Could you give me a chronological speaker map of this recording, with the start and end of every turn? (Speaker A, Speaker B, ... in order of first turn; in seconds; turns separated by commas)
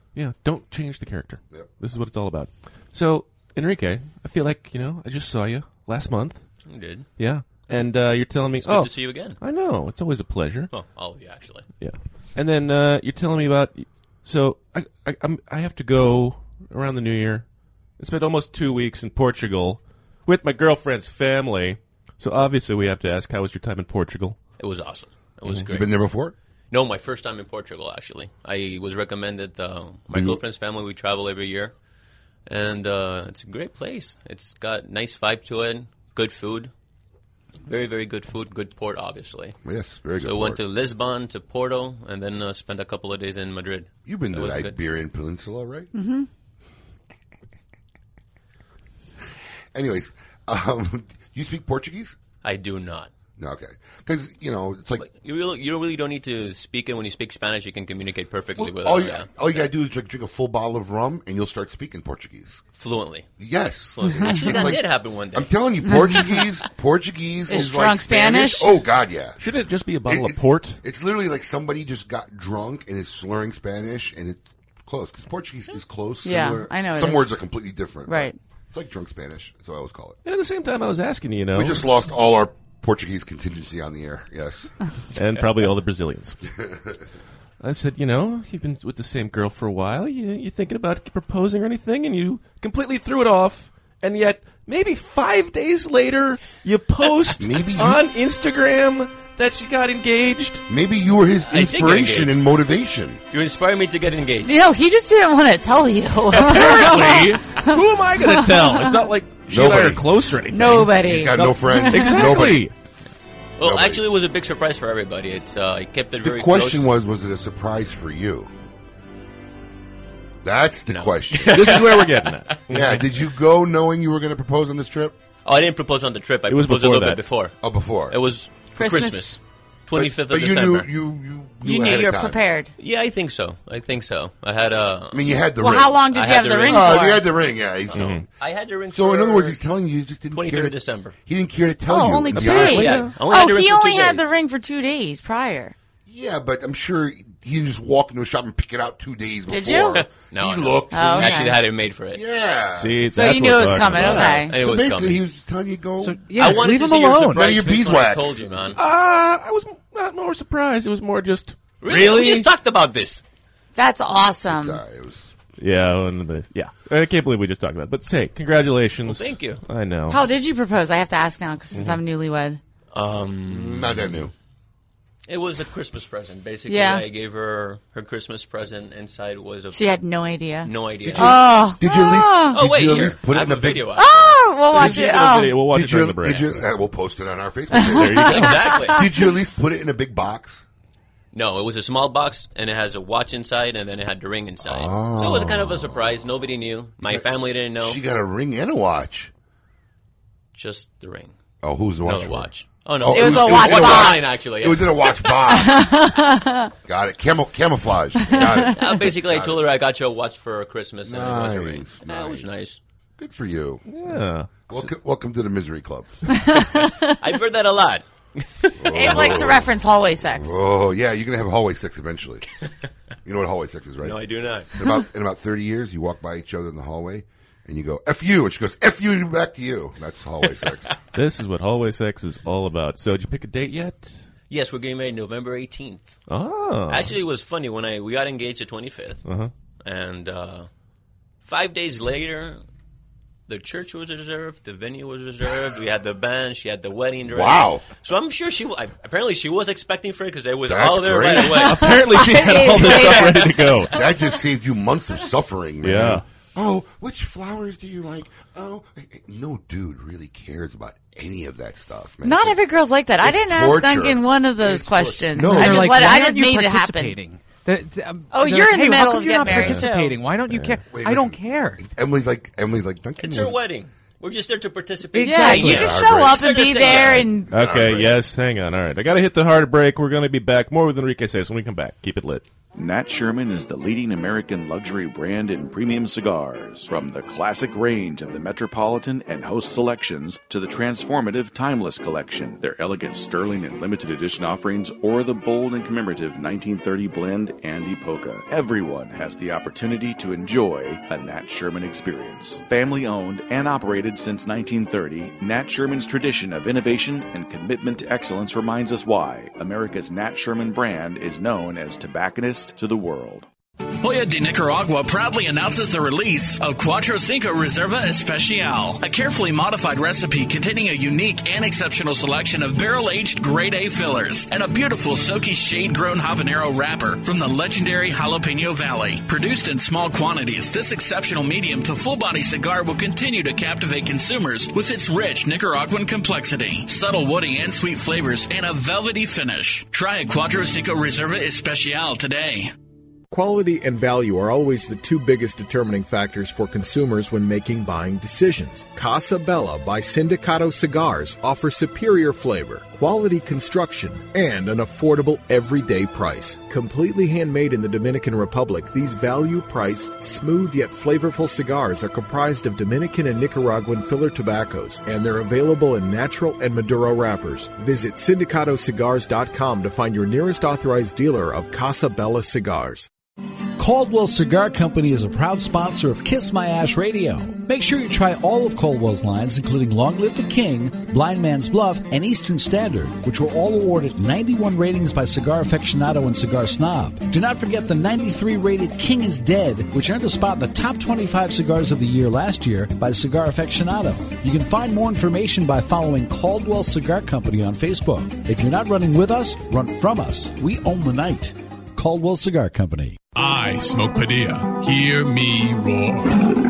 Speaker A: 0.2-6.4, Speaker B: 6.7-7.1, Speaker A: 7.2-10.7, Speaker B: 8.6-9.4, Speaker B: 10.7-11.7, Speaker A: 11.8-17.4, Speaker A: 18.0-24.4, Speaker B: 24.6-25.9, Speaker C: 25.7-26.4, Speaker B: 26.7-31.7, Speaker C: 30.1-30.4, Speaker B: 32.5-36.7, Speaker B: 37.7-39.6, Speaker C: 39.6-40.6, Speaker B: 40.2-44.8, Speaker C: 44.1-45.9, Speaker D: 45.9-46.3, Speaker C: 49.7-52.2, Speaker B: 52.4-53.1, Speaker C: 53.4-55.1, Speaker B: 55.0-59.7, Speaker C: 58.6-62.6, Speaker B: 62.8-63.3, Speaker C: 63.4-69.5, Speaker B: 64.0-66.0, Speaker D: 65.9-66.2, Speaker D: 67.5-68.8, Speaker A: 69.4-70.8, Speaker C: 70.0-80.2, Speaker D: 76.2-77.3, Speaker D: 78.1-78.4, Speaker A: 80.3-81.8, Speaker C: 81.5-84.7, Speaker A: 85.2-86.4, Speaker C: 86.6-87.0, Speaker A: 87.6-100.6, Speaker C: 97.3-98.1, Speaker C: 100.7-103.2, Speaker B: 101.5-102.5, Speaker B: 103.3-104.6, Speaker D: 104.5-109.1, Speaker A: 106.4-112.7, Speaker C: 109.5-110.1, Speaker D: 110.5-112.3, Speaker C: 110.7-112.7, Speaker B: 113.6-116.9, Speaker C: 113.6-114.1, Speaker C: 116.2-118.5, Speaker C: 120.4-122.0, Speaker B: 120.9-122.6, Speaker A: 121.5-123.0, Speaker C: 122.7-125.2, Speaker B: 125.5-127.5, Speaker A: 126.5-127.2, Speaker C: 127.6-128.2, Speaker B: 128.1-130.9, Speaker D: 128.8-129.4, Speaker C: 129.9-132.4, Speaker D: 131.6-132.7, Speaker B: 132.8-135.5, Speaker C: 135.1-136.1, Speaker D: 135.6-137.2, Speaker B: 136.1-137.2, Speaker C: 136.6-138.2, Speaker B: 137.9-139.6, Speaker A: 137.9-138.2, Speaker C: 138.9-143.1, Speaker B: 140.3-141.2, Speaker D: 141.9-145.8, Speaker A: 142.3-143.1, Speaker B: 142.5-144.3, Speaker C: 146.1-153.1, Speaker D: 149.5-150.0, Speaker B: 149.9-152.2, Speaker D: 150.9-151.6, Speaker A: 152.7-154.3, Speaker D: 153.1-154.5, Speaker C: 153.8-156.7, Speaker B: 154.1-155.2, Speaker E: 156.0-157.7, Speaker B: 156.3-158.8, Speaker C: 157.3-158.5, Speaker A: 158.8-162.5, Speaker B: 161.8-163.2, Speaker D: 163.8-164.8, Speaker C: 164.5-165.3, Speaker A: 165.6-170.2, Speaker B: 169.1-169.6, Speaker D: 170.1-172.6, Speaker B: 172.9-174.2, Speaker C: 173.5-174.3, Speaker B: 175.3-179.9, Speaker D: 176.7-177.1, Speaker D: 179.7-182.6, Speaker B: 180.6-181.6, Speaker C: 181.0-183.9, Speaker B: 182.5-184.6, Speaker D: 184.0-185.6, Speaker A: 184.7-186.6, Speaker C: 185.7-190.6, Speaker D: 187.7-189.1, Speaker A: 188.0-188.5, Speaker B: 188.2-189.1, Speaker B: 191.3-198.0, Speaker C: 194.6-196.1, Speaker C: 197.0-197.3, Speaker C: 197.8-199.3, Speaker B: 200.5-201.3, Speaker C: 201.6-206.0, Speaker B: 202.0-205.4, Speaker D: 203.1-204.2, Speaker D: 205.5-206.7, Speaker C: 206.8-209.7, Speaker D: 208.3-208.7, Speaker B: 208.7-212.8, Speaker C: 211.0-212.6, Speaker C: 213.2-213.9, Speaker A: 213.9-214.7, Speaker C: 214.7-216.2, Speaker D: 216.3-217.2, Speaker B: 217.2-218.1, Speaker C: 218.8-219.7, Speaker D: 218.9-220.6, Speaker B: 219.1-219.4, Speaker C: 220.3-222.5, Speaker C: 223.2-224.2, Speaker B: 224.0-224.7, Speaker C: 224.7-230.9, Speaker A: 231.2-234.1, Speaker B: 234.5-236.2, Speaker A: 236.3-237.1, Speaker B: 236.9-239.2, Speaker B: 239.8-240.7, Speaker B: 241.4-242.6, Speaker B: 243.5-253.7, Speaker C: 247.3-247.8, Speaker C: 250.7-251.8, Speaker A: 251.7-253.9, Speaker D: 251.7-253.6, Speaker C: 252.8-253.3, Speaker C: 253.9-262.6, Speaker A: 255.8-256.2, Speaker D: 262.2-267.2, Speaker C: 263.2-266.1, Speaker E: 265.4-271.8, Speaker D: 268.3-270.2, Speaker A: 269.5-269.8, Speaker A: 270.5-270.8, Speaker C: 270.9-273.6, Speaker B: 273.2-277.3, Speaker E: 275.1-276.0, Speaker D: 275.2-277.5, Speaker C: 275.5-278.2, Speaker A: 277.5-282.4, Speaker F: 282.7-313.5, Speaker G: 314.0-342.7, Speaker H: 343.3-373.1, Speaker I: 373.8-403.2, Speaker J: 403.4-406.4